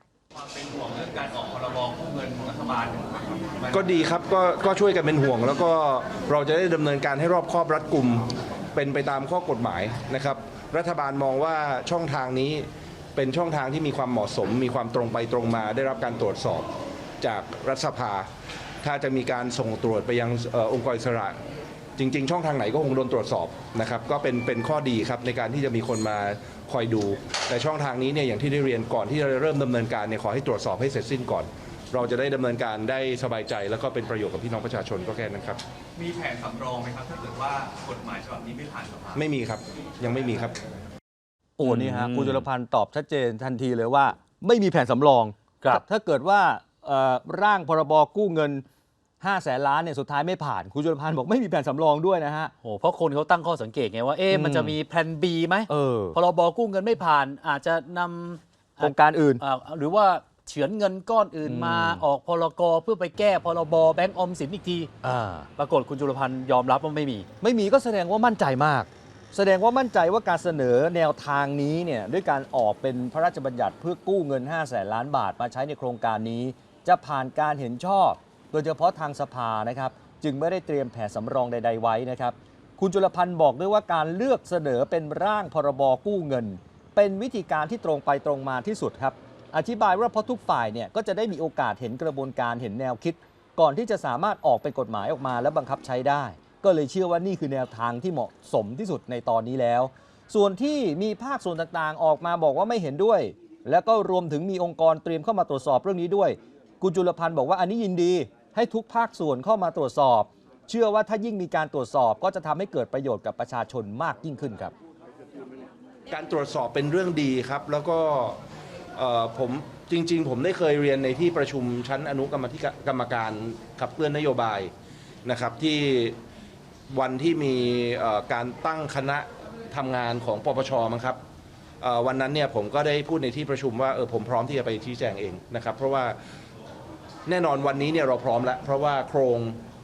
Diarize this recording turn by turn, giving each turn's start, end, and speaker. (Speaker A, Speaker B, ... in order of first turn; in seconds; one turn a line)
Speaker A: 0.3-3.9
Speaker B: 3.7-16.7
Speaker B: 17.2-18.3
Speaker B: 18.8-21.4
Speaker B: 22.0-35.6
Speaker A: 36.0-39.2
Speaker B: 39.1-40.6
Speaker C: 41.6-48.6
Speaker D: 41.6-42.4
Speaker C: 49.2-52.5
Speaker D: 52.6-64.9
Speaker C: 54.3-54.7
Speaker C: 55.7-56.2
Speaker C: 58.8-59.4
Speaker C: 61.5-62.0
Speaker C: 65.0-65.5
Speaker D: 65.5-67.3
Speaker C: 67.4-114.7
Speaker B: 116.1-118.4
Speaker B: 118.9-124.7
Speaker B: 125.2-126.2
Speaker B: 126.9-131.2
Speaker B: 131.8-136.2
Speaker B: 137.3-139.6